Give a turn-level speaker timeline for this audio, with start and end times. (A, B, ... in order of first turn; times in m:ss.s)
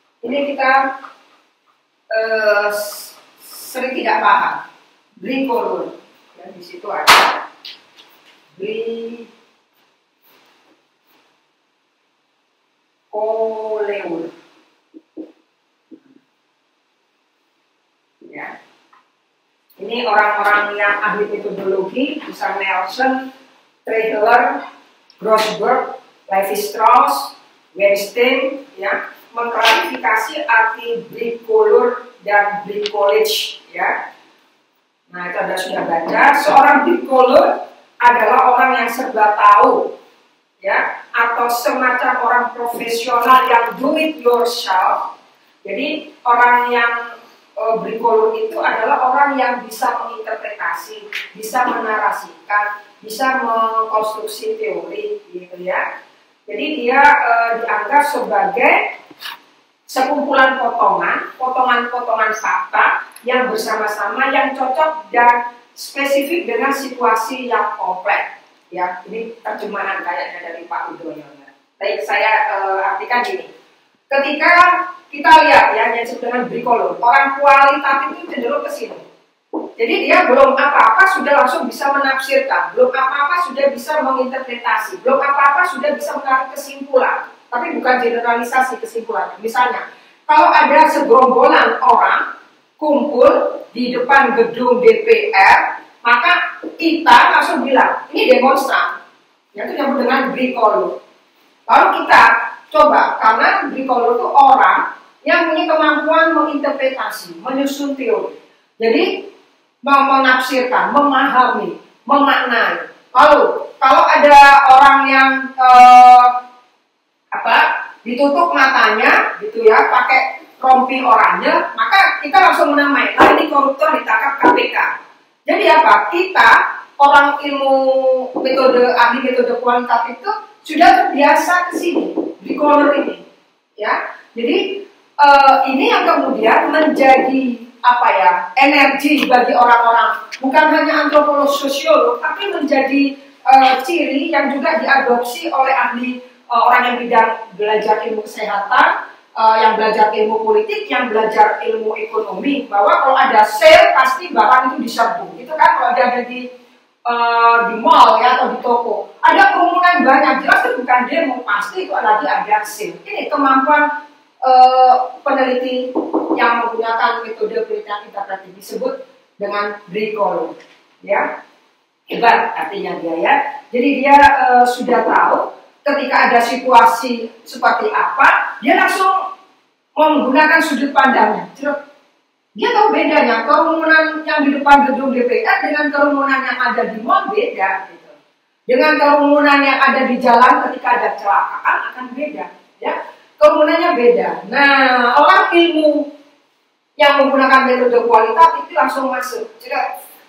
0:00.2-0:00.9 A
0:02.1-0:04.6 A
0:05.2-0:07.4 A
0:08.6-0:09.3 A
0:13.1-0:14.3 A
0:18.3-0:18.5 A
0:19.8-0:23.3 A
0:23.8-0:24.6 A
0:25.2-0:33.9 A
0:35.1-0:39.9 A
0:40.6-0:45.1 A
0:45.6-0:47.1 A
0:47.6-0:55.8 A
0:56.5-0:58.9 A
0:59.9-1:13.5 A
1:14.1-1:19.0 A
1:19.8-1:32.2 A
1:32.8-1:39.0 A
1:39.5-1:41.0 A
1:41.7-1:49.3 A
1:49.8-1:56.4 A
1:57.3-2:04.9 A
2:05.5-2:13.2 A
2:13.8-2:36.4 A
2:37.1-2:43.9 A
2:44.4-2:51.3 A
2:52.1-2:59.2 A
3:00.0-3:01.8 A
3:02.6-3:08.2 A
3:08.7-3:16.1 A
3:17.0-3:19.8 A